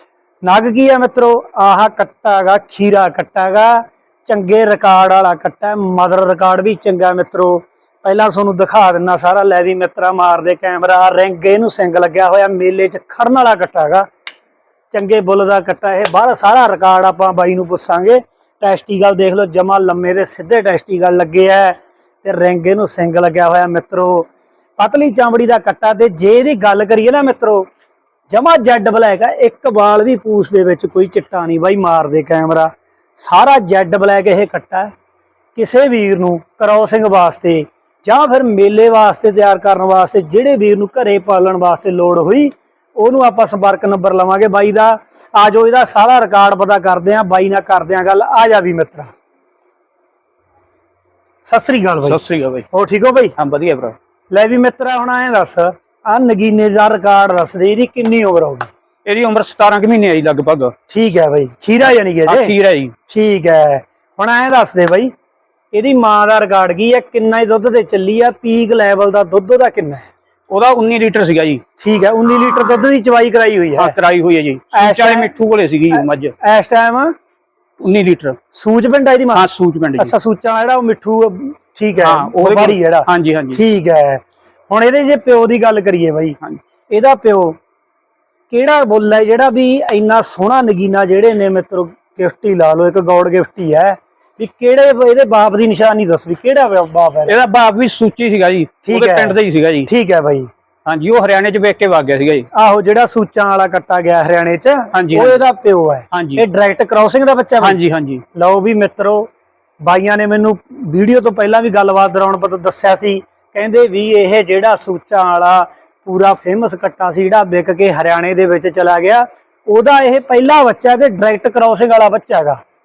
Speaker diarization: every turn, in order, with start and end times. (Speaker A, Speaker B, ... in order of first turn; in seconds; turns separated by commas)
Speaker A: 0.4-14.1, Speaker A: 14.9-24.3, Speaker A: 24.8-27.7, Speaker A: 28.3-34.9, Speaker A: 35.6-49.1, Speaker A: 51.5-53.3, Speaker B: 52.1-52.7, Speaker B: 53.4-54.0, Speaker A: 54.3-58.7, Speaker B: 59.1-60.7, Speaker A: 60.9-62.5, Speaker B: 62.3-62.9, Speaker A: 63.1-65.1, Speaker A: 65.7-70.1, Speaker B: 70.5-71.6, Speaker A: 71.8-74.0, Speaker B: 73.8-76.3, Speaker A: 74.7-75.3, Speaker A: 75.9-77.1, Speaker B: 77.8-78.4, Speaker A: 78.5-86.4, Speaker B: 79.3-80.1, Speaker B: 82.0-83.6, Speaker A: 86.9-87.6, Speaker A: 88.5-97.4, Speaker B: 97.3-99.9, Speaker A: 98.8-100.5, Speaker B: 100.9-102.5, Speaker A: 102.5-107.8, Speaker B: 104.9-105.4, Speaker B: 106.1-106.4, Speaker B: 107.6-108.2, Speaker A: 108.3-109.3, Speaker A: 109.8-122.6